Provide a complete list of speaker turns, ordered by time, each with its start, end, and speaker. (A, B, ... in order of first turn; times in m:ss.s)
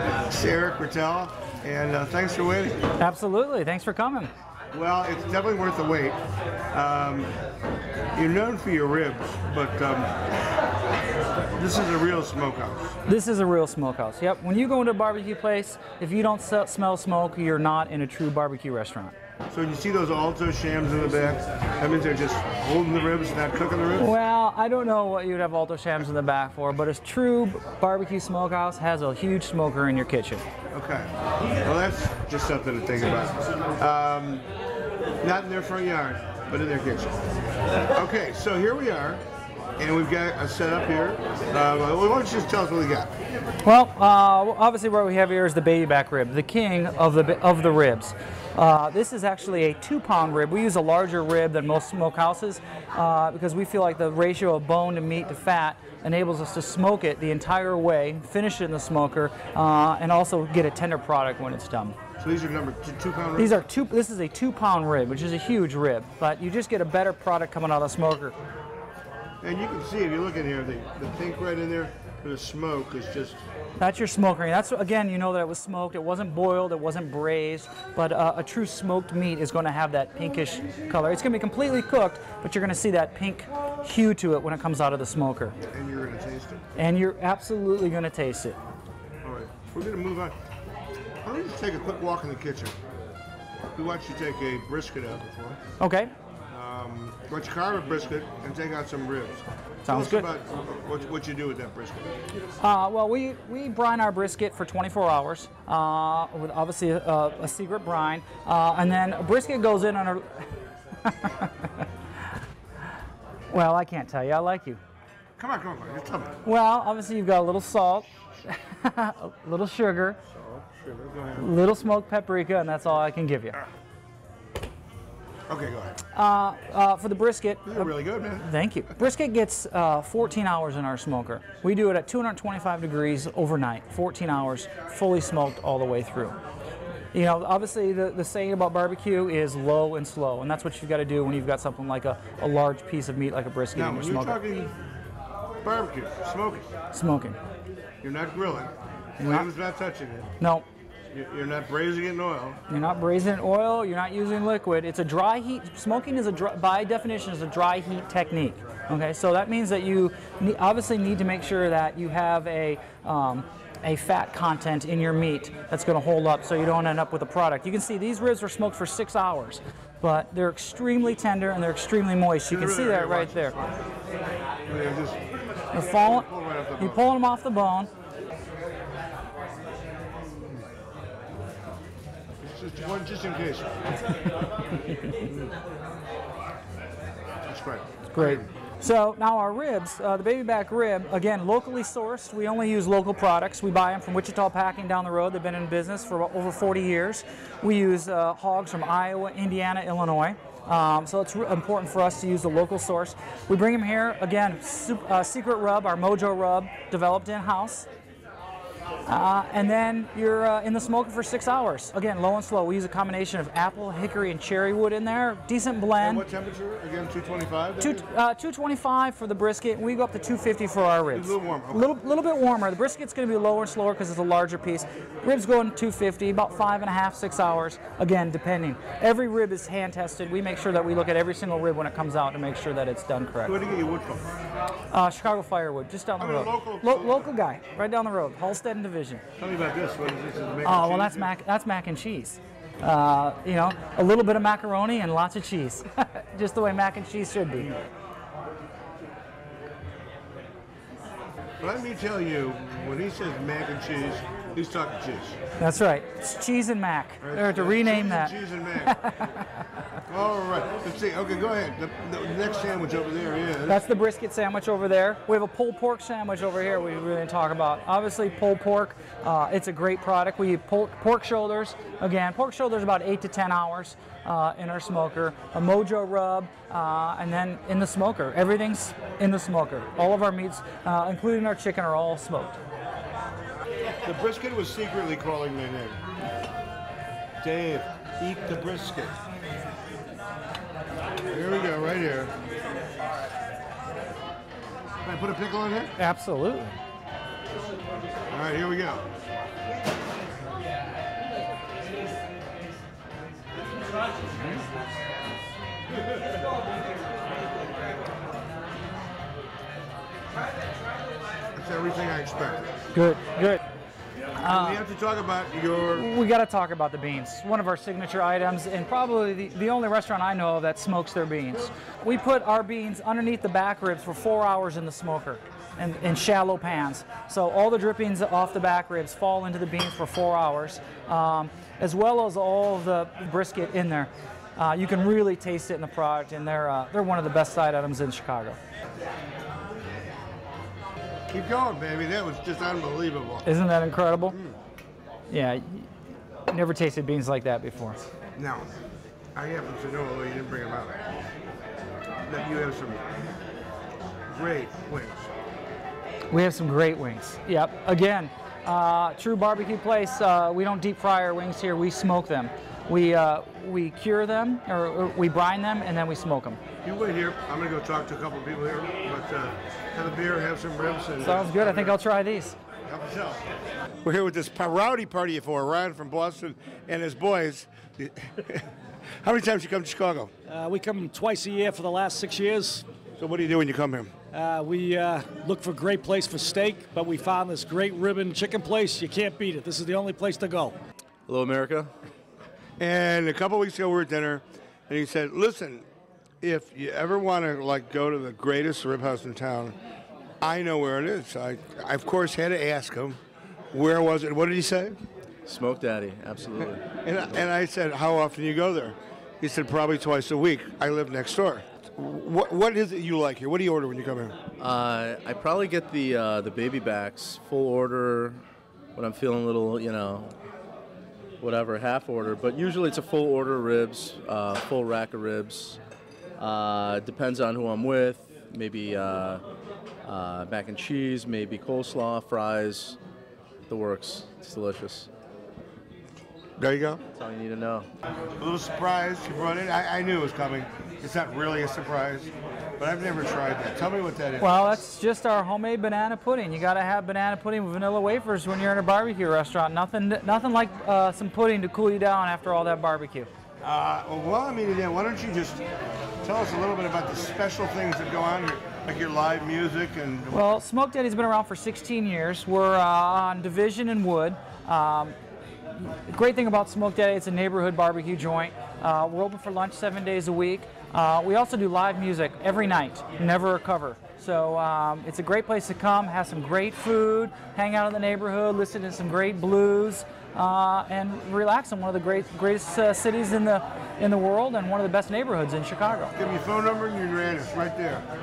0:00.3-0:02.8 A
0:03.0-0:04.3 B
0:04.7-0:06.2 A
0:06.7-0:07.3 A
0:08.2-0:10.1 A
0:11.6-0:13.0 A
0:13.1-0:19.1 B
0:19.5-0:24.1 A
0:24.0-0:30.4 B
0:30.7-0:31.1 A
0:31.6-0:34.5 A
0:35.2-0:37.2 A
0:38.0-0:39.2 A
0:39.8-0:43.1 A
0:43.6-1:02.0 B
1:02.2-1:03.6 A
1:03.4-1:08.4 B
1:09.4-1:13.4 A
1:13.8-1:25.6 B
1:25.7-1:26.6 A
1:26.8-1:28.6 B
1:29.2-1:30.4 A
1:31.2-1:32.8 A
1:33.8-1:35.6 A
1:35.8-1:36.1 B
1:36.5-1:42.2 A
1:39.8-1:40.3 B
1:42.6-1:50.4 B
1:51.0-1:51.8 B
1:53.5-1:54.8 B
1:55.4-1:56.4 A
1:56.4-2:00.2 B
2:00.3-2:01.5 A
2:01.4-2:03.6 B
2:05.5-2:06.0 A
2:06.1-2:16.4 B
2:07.6-2:08.5 A
2:17.1-2:24.4 B
2:23.8-2:24.7 A
2:25.6-2:26.6 A
2:26.9-2:27.4 B
2:28.0-2:30.3 A
2:29.2-2:29.5 B
2:30.4-2:30.7 B
2:31.1-2:32.6 A
2:32.7-2:53.6 B
2:52.5-2:53.8 A
2:54.7-2:55.2 A
2:55.7-2:56.3 B
2:55.7-2:57.0 A
2:56.8-2:57.9 B
3:02.4-3:03.8 A
3:05.3-3:05.5 A
3:07.5-3:08.5 A
3:08.1-3:27.9 B
3:29.1-3:36.2 B
3:36.0-3:38.0 A
3:37.8-3:53.6 B
3:41.1-3:41.9 A
3:53.4-3:54.3 A
3:54.9-3:59.2 B
3:56.2-3:57.3 A
3:59.4-4:01.3 A
4:00.6-4:07.7 B
4:11.6-4:15.4 A
4:15.6-4:19.5 B
4:17.2-4:19.0 A
4:20.1-4:23.8 A
4:23.7-4:42.6 B
4:44.0-4:46.0 A
4:47.4-4:49.2 A
4:51.3-4:52.3 A
4:55.0-4:55.9 A
4:56.0-4:56.8 B
4:58.3-4:59.0 A
5:11.5-5:12.7 A
5:12.9-5:13.6 B
5:14.4-5:14.8 B
5:14.4-5:16.1 A
5:15.9-5:38.6 B
5:41.3-5:43.5 A
5:43.4-5:44.4 B
5:44.3-5:44.6 A
5:45.3-5:45.9 B
5:46.5-5:48.0 B
5:48.4-5:48.7 A
5:49.4-5:51.0 A
5:52.3-5:53.0 A
5:54.3-5:55.3 A
5:56.3-6:06.6 B
6:06.8-6:12.0 A
6:11.2-6:12.6 B
6:12.9-6:13.4 A
6:14.0-6:18.7 A
6:19.2-6:20.3 A
6:20.5-6:22.8 C
6:23.2-6:24.1 A
6:24.3-6:30.8 C
6:31.3-6:31.9 D
6:32.8-6:35.8 A
6:36.4-6:39.8 A
6:40.4-6:43.2 A
6:43.7-6:45.0 A
6:45.5-6:46.8 D
6:46.7-6:54.4 A
6:54.6-6:58.4 D
6:59.0-7:00.3 D
7:01.4-7:05.8 D
7:06.4-7:09.4 D
7:10.0-7:13.0 D
7:13.7-7:15.1 D
7:16.6-7:17.0 A
7:17.2-7:17.9 D
7:18.4-7:24.7 A
7:24.4-7:33.3 B
7:33.6-7:35.6 A
7:36.2-7:40.4 A
7:40.3-7:45.2 B
7:45.8-8:06.2 B
8:06.1-8:08.1 A